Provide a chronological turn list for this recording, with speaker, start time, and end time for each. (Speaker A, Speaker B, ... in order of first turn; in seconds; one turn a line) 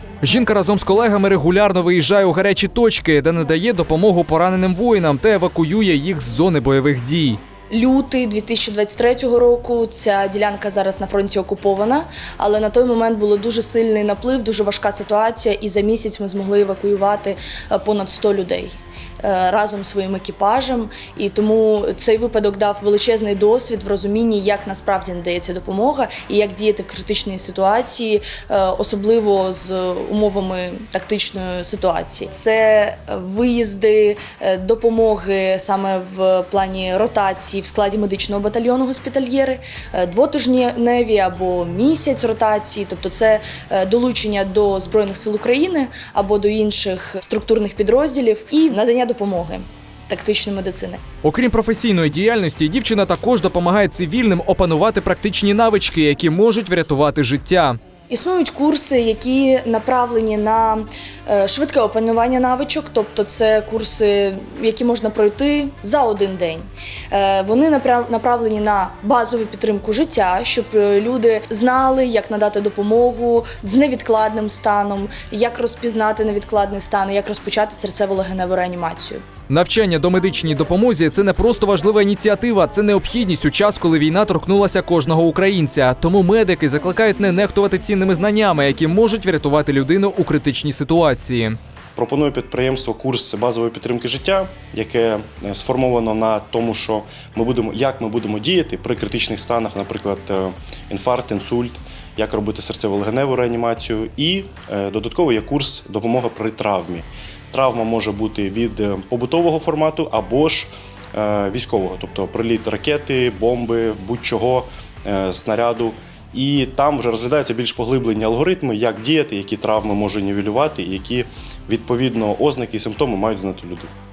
Speaker A: 0.2-7.4
Speaker B: 7.7-51.0
Speaker A: 51.2-57.8
Speaker B: 58.1-79.2
Speaker A: 79.5-91.6
Speaker C: 92.0-123.9